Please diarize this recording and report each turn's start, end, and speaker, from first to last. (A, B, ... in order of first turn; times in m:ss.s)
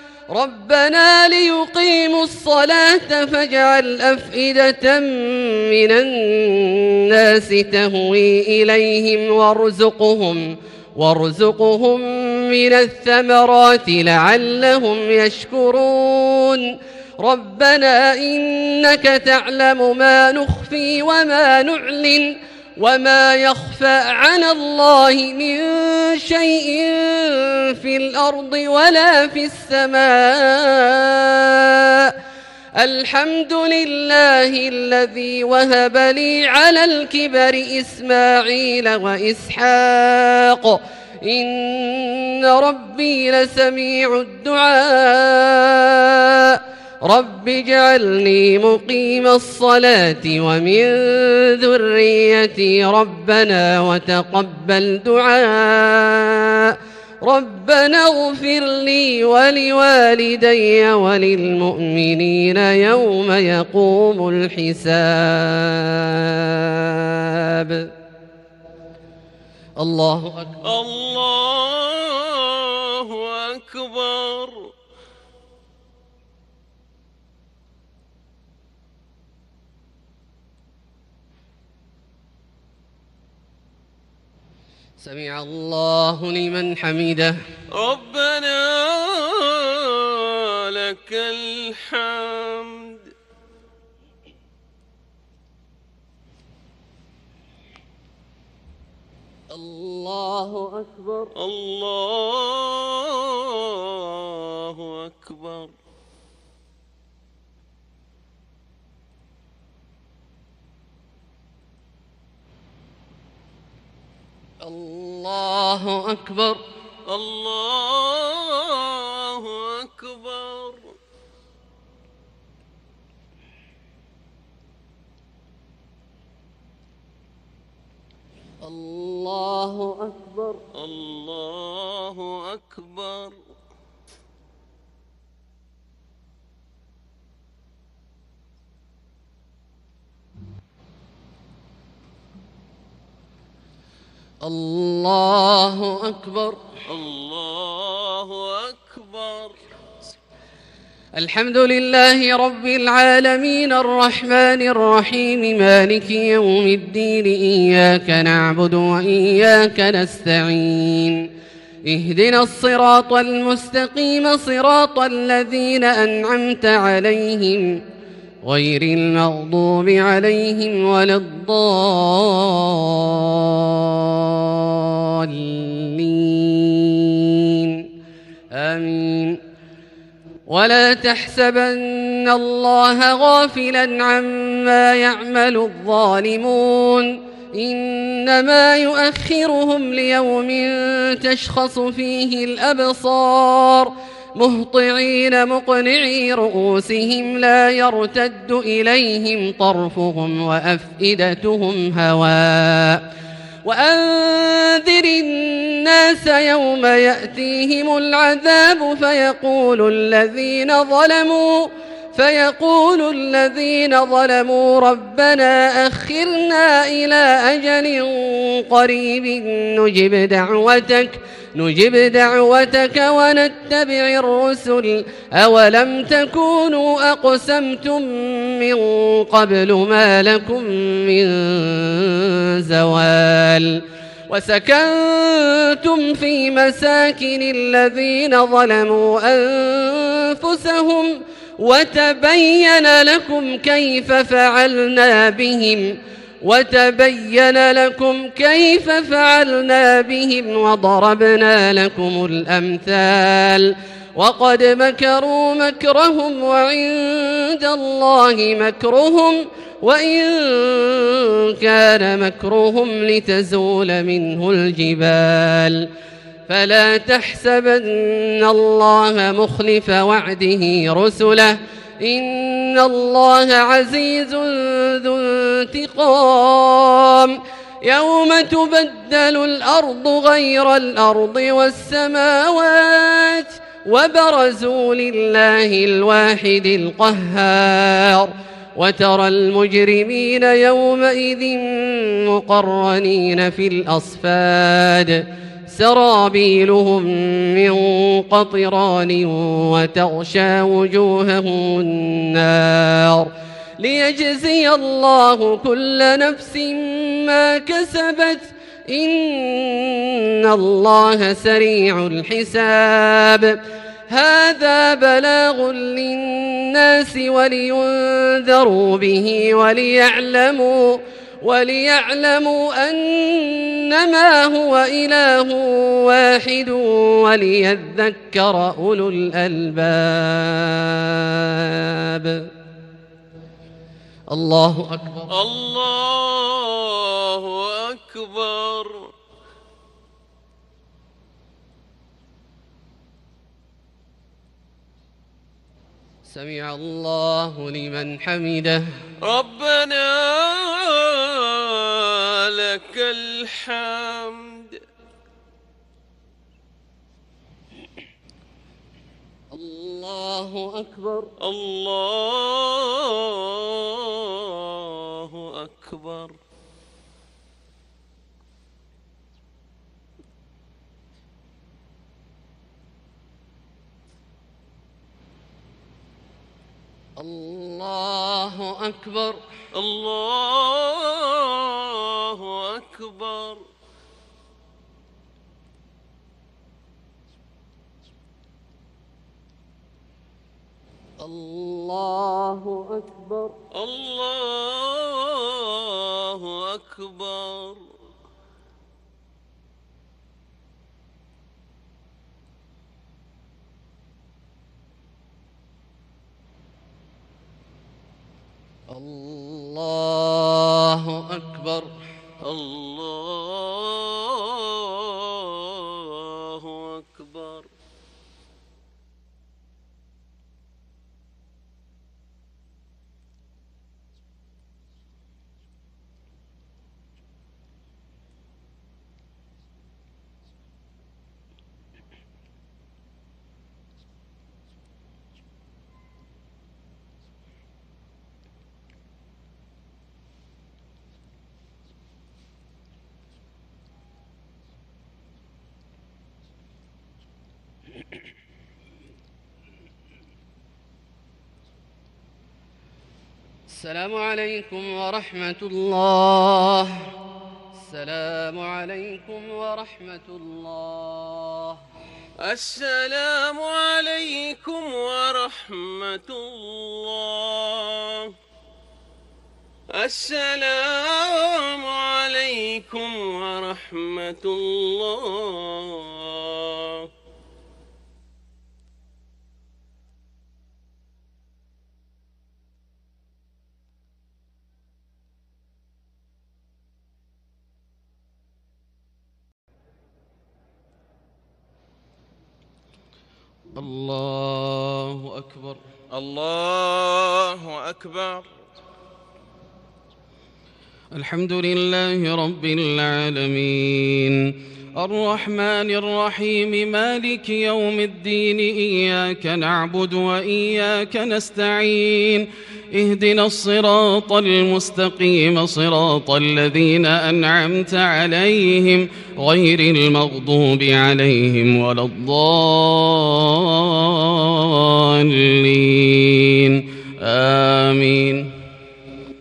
0:00.3-0:32.2 A
0:32.8-1:07.9 A
1:09.8-1:10.6 A
1:10.6-1:14.7 B
1:25.0-1:27.4 A
1:27.7-1:33.1 B
1:39.5-1:41.3 A
1:41.4-1:45.7 B
1:54.6-1:56.6 A
1:57.1-2:01.0 B
2:08.6-2:10.6 A
2:10.7-2:13.4 B
2:24.4-2:26.6 A
2:26.9-2:29.6 B
2:31.2-2:41.3 A
2:41.9-2:47.8 A
2:48.4-2:57.9 A
2:58.5-2:59.4 A
3:00.5-3:23.0 A
3:23.6-4:25.9 A
4:26.5-5:32.5 A
5:34.3-5:35.3 A
5:35.3-5:39.1 B
5:46.3-5:48.8 A
5:49.2-5:54.8 B
5:59.5-6:01.3 A
6:01.4-6:06.4 B
6:17.2-6:19.4 A
6:19.7-6:23.7 B
6:31.2-6:33.6 A
6:33.7-6:37.9 B
6:48.9-6:52.0 A
6:52.4-6:57.7 B
7:33.7-7:37.0 A
7:37.8-7:41.8 A
7:42.4-7:48.3 B
7:49.9-7:57.1 B
8:13.8-8:15.8 C
8:16.1-8:18.5 B
8:21.1-8:48.5 C